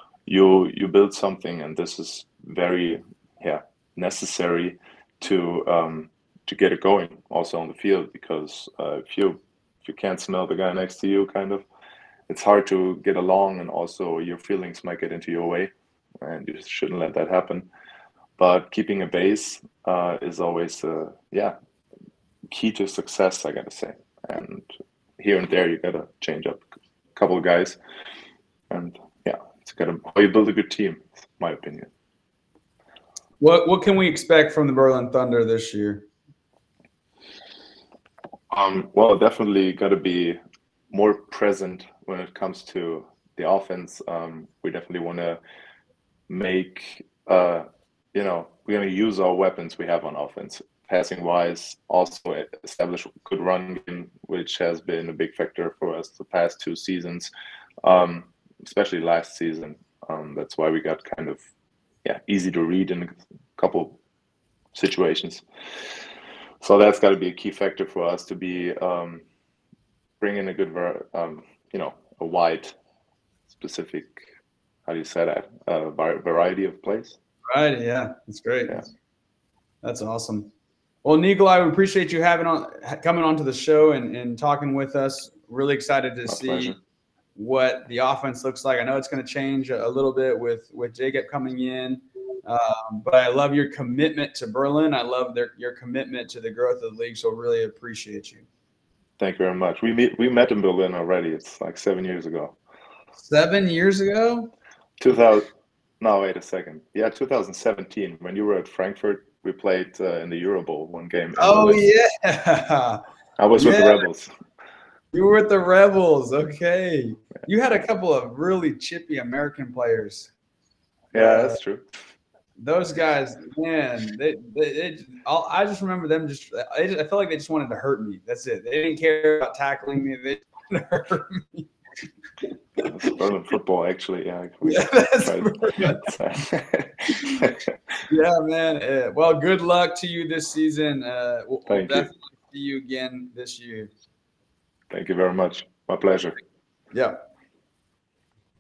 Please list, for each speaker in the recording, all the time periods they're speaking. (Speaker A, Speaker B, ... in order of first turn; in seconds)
Speaker A: 0.3-11.6, 12.3-17.7, 18.4-21.6, 22.5-24.7, 25.2-26.6, 27.2-27.8, 28.7-31.9, 38.5-40.4, 40.9-45.4, 46.3-57.3, 57.8-61.4, 62.0-64.0, 64.8-65.4, 66.6-69.2, 70.2-72.8, 73.6-74.3, 74.9-77.2, 86.3-86.8, 99.2-102.6, 105.0-105.5, 106.0-111.9, 113.4-114.3, 121.1-121.8, 132.8-137.6, 141.7-142.1, 144.9-146.4
Speaker B: 33.4-36.1, 77.5-78.8, 79.8-80.5, 81.0-86.8, 87.4-98.5, 103.2-104.5, 111.4-113.0, 113.6-114.0, 115.1-120.3, 121.1-121.6, 122.6-131.7, 134.6-136.1, 138.1-143.9